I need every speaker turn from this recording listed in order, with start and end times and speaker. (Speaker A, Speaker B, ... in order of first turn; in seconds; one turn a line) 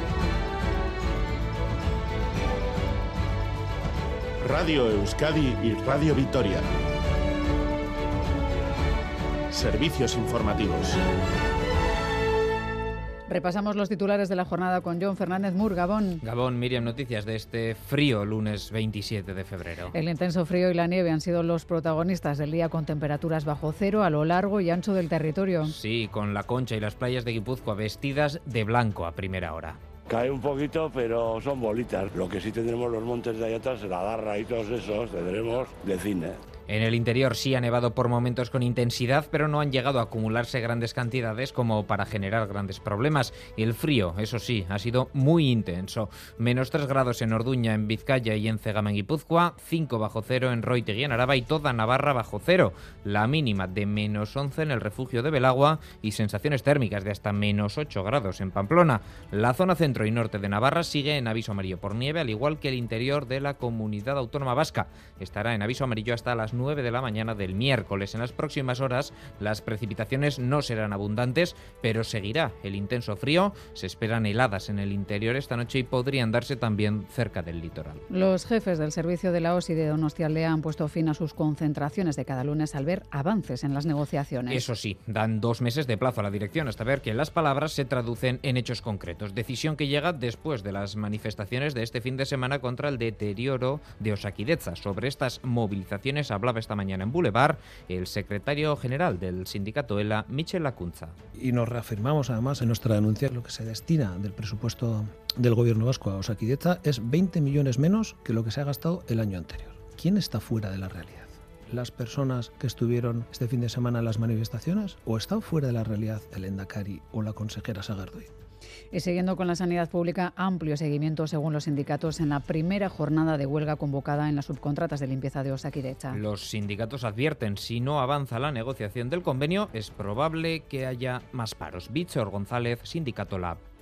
Speaker A: 4.5-6.6
Speaker A: 9.6-10.9
Speaker B: 13.3-16.2
Speaker C: 16.2-19.9
Speaker B: 19.9-25.7
Speaker C: 25.6-29.8
Speaker D: 30.1-36.4
Speaker C: 36.7-78.0
Speaker B: 78.1-84.6
Speaker C: 84.5-101.1
Speaker E: 101.3-118.3
Speaker B: 118.9-126.2
Speaker C: 126.1-133.6